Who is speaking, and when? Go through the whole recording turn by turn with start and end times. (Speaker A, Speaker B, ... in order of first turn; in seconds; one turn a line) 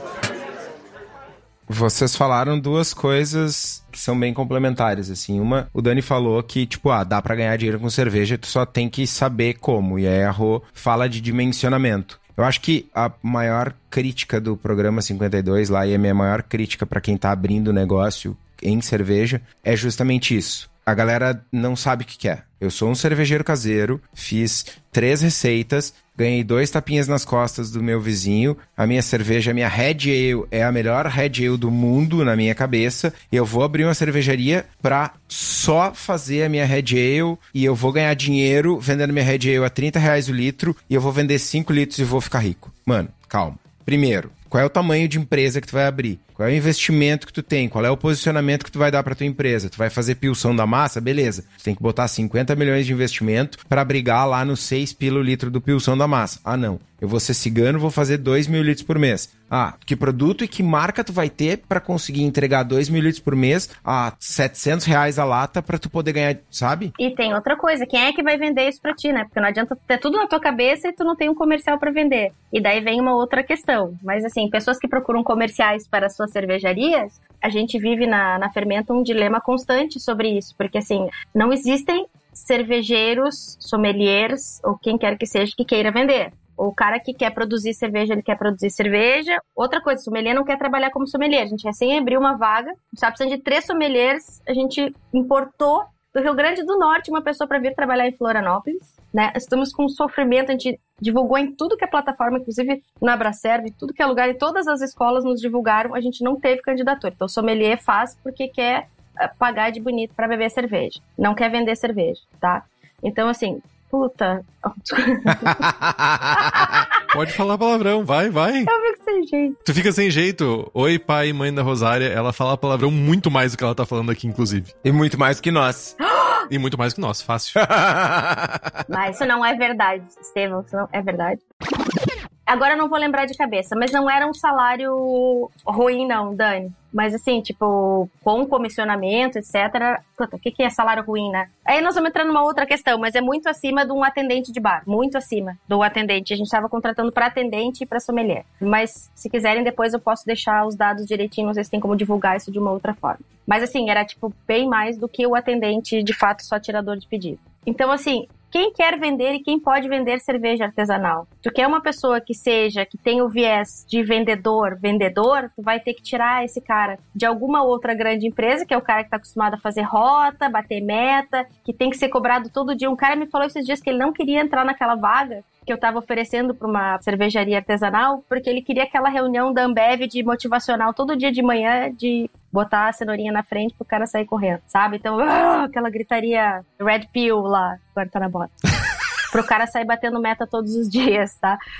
Speaker A: 1.7-66.9
Speaker B: 67.0-115.7
Speaker A: 115.3-116.8
Speaker B: 116.3-116.8
Speaker C: 117.1-118.7
Speaker B: 118.7-119.5
Speaker C: 119.6-124.7
Speaker A: 124.8-126.0
Speaker B: 126.0-126.4
Speaker C: 126.5-127.6
Speaker A: 127.6-128.7
Speaker B: 128.9-131.4
Speaker B: 132.5-188.6
Speaker B: 189.3-191.6